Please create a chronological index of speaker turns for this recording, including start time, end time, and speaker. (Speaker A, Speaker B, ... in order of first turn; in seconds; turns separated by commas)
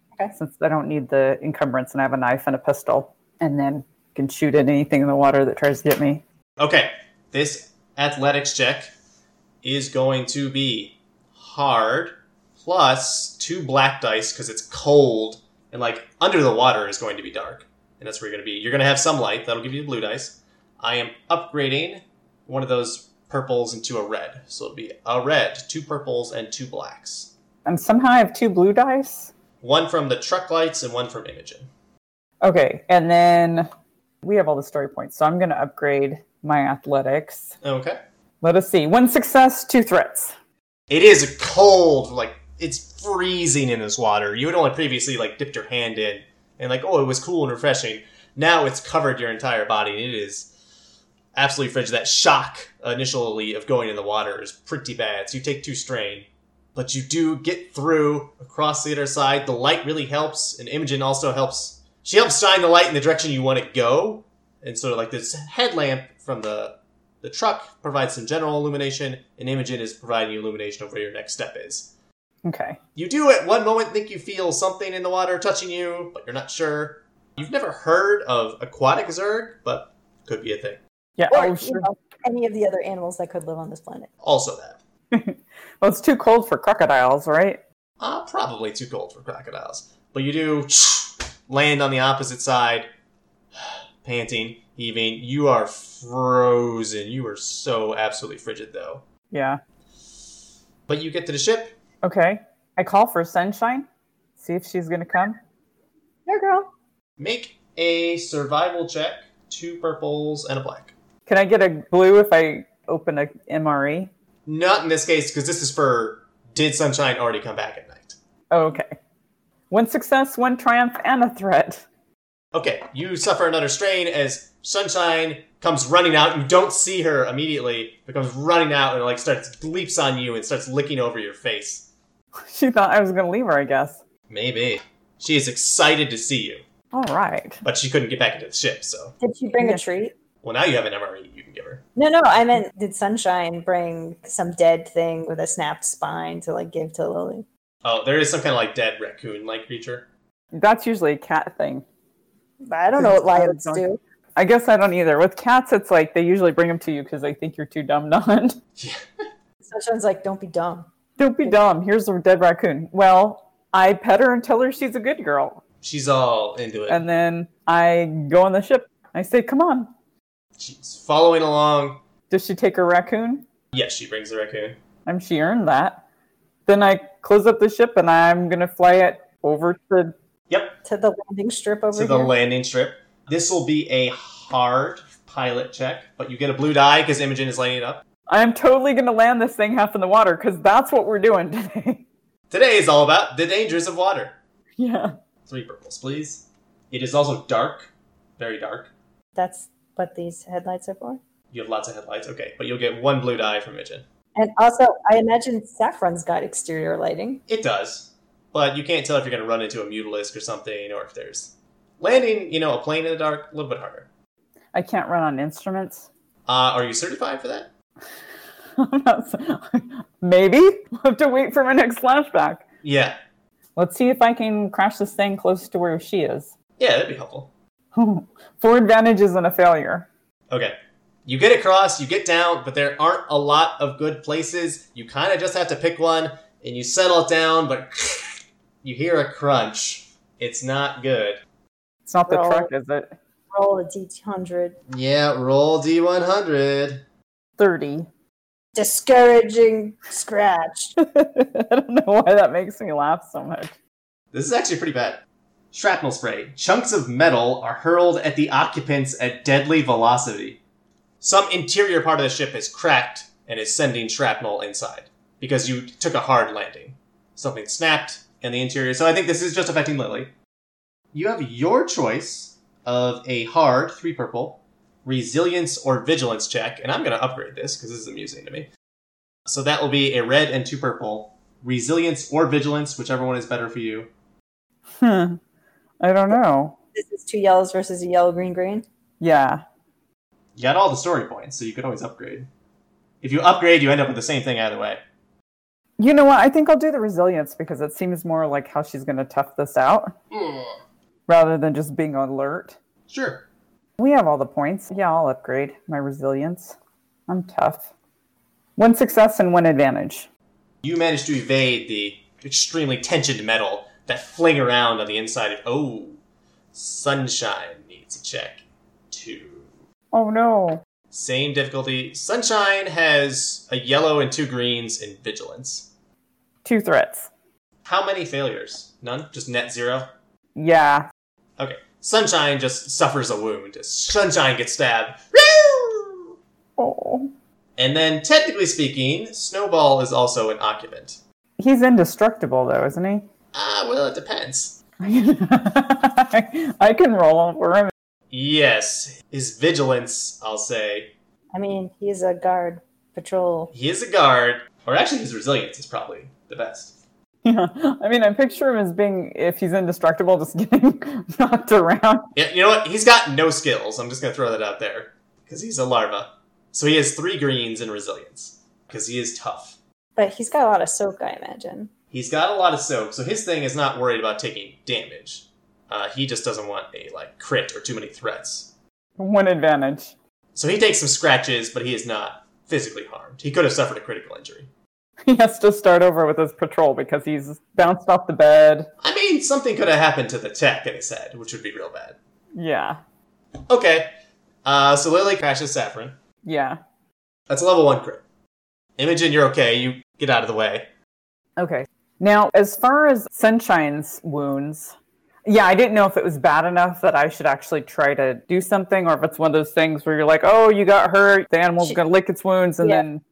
Speaker A: 0.3-6.2, Speaker B: 6.6-8.9, Speaker B: 9.6-27.3, Speaker A: 27.6-29.3, Speaker B: 29.6-31.7, Speaker A: 32.4-33.7, Speaker A: 34.2-37.5, Speaker B: 37.6-38.0, Speaker A: 38.4-40.3, Speaker B: 40.9-50.5, Speaker B: 51.3-71.9, Speaker A: 72.4-72.8, Speaker B: 72.9-80.8, Speaker A: 81.2-81.8, Speaker C: 81.3-84.1, Speaker B: 84.2-84.8, Speaker A: 85.1-87.6, Speaker B: 88.0-92.9, Speaker B: 93.5-99.0, Speaker A: 99.3-99.6, Speaker B: 100.9-101.7, Speaker A: 102.0-103.8, Speaker A: 104.4-105.4, Speaker C: 106.3-106.7, Speaker B: 107.2-110.9, Speaker A: 111.2-114.1, Speaker B: 114.5-118.2, Speaker A: 118.5-119.0, Speaker A: 119.7-121.8, Speaker B: 122.5-131.9, Speaker A: 132.4-134.0, Speaker B: 134.3-136.6, Speaker A: 136.9-137.6, Speaker B: 137.6-139.2, Speaker C: 139.2-140.1, Speaker B: 140.4-141.8, Speaker C: 141.9-147.4, Speaker B: 147.8-150.1, Speaker A: 150.5-151.8, Speaker C: 152.7-154.0, Speaker A: 153.0-153.8, Speaker A: 154.3-158.6, Speaker B: 158.8-159.0, Speaker C: 159.6-160.9, Speaker A: 161.2-165.6, Speaker B: 165.8-167.0, Speaker A: 166.9-169.9, Speaker B: 170.6-172.0, Speaker A: 172.3-173.4, Speaker B: 173.7-174.8, Speaker A: 175.1-176.0, Speaker A: 176.7-180.1, Speaker B: 180.5-180.8, Speaker C: 180.8-182.3, Speaker B: 181.9-188.0, Speaker A: 188.3-192.0, Speaker B: 192.5-194.4, Speaker A: 194.8-195.1, Speaker B: 195.5-198.9, Speaker C: 199.3-201.2, Speaker B: 201.5-204.0, Speaker C: 204.3-207.4, Speaker B: 207.5-214.1, Speaker A: 214.7-216.1, Speaker B: 216.4-217.7, Speaker A: 218.8-222.6, Speaker B: 222.8-223.2, Speaker A: 223.8-226.5, Speaker B: 226.8-227.5, Speaker A: 227.9-230.1, Speaker B: 230.5-230.7, Speaker B: 231.2-241.4, Speaker A: 242.1-243.1, Speaker C: 242.3-242.7, Speaker C: 243.5-244.8, Speaker B: 244.9-247.0, Speaker A: 247.6-248.1, Speaker C: 248.7-250.9, Speaker A: 251.0-253.7, Speaker B: 254.3-255.2, Speaker B: 255.7-260.6, Speaker B: 261.2-270.3, Speaker B: 271.1-278.7, Speaker B: 279.5-284.1, Speaker A: 285.0-285.4, Speaker A: 286.0-286.8, Speaker C: 286.9-288.8, Speaker A: 289.2-289.6, Speaker B: 290.6-292.5, Speaker B: 293.2-295.0, Speaker A: 296.0-300.1, Speaker B: 300.3-300.7, Speaker A: 301.3-302.8, Speaker B: 303.1-303.4, Speaker A: 304.0-306.8, Speaker A: 307.3-307.9, Speaker A: 308.8-310.3, Speaker B: 310.8-316.2, Speaker B: 316.7-319.7, Speaker A: 320.1-320.8, Speaker B: 321.1-325.9, Speaker A: 326.6-327.3, Speaker B: 327.8-330.1, Speaker A: 330.5-331.1, Speaker B: 331.6-336.3, Speaker A: 336.8-337.3, Speaker B: 337.8-341.2, Speaker A: 341.6-343.2, Speaker B: 343.5-344.8, Speaker A: 345.0-347.9, Speaker B: 348.3-351.1, Speaker C: 351.5-353.7, Speaker B: 353.7-356.9, Speaker A: 357.4-362.3, Speaker B: 362.3-369.8, Speaker C: 370.2-371.9, Speaker B: 372.1-378.7, Speaker A: 379.2-380.1, Speaker B: 380.5-384.7, Speaker A: 385.3-388.9, Speaker B: 389.0-392.2, Speaker A: 392.6-393.0, Speaker B: 393.7-394.1, Speaker B: 394.6-396.1, Speaker A: 396.4-396.8, Speaker B: 397.5-398.2, Speaker B: 399.0-400.9, Speaker A: 401.6-413.2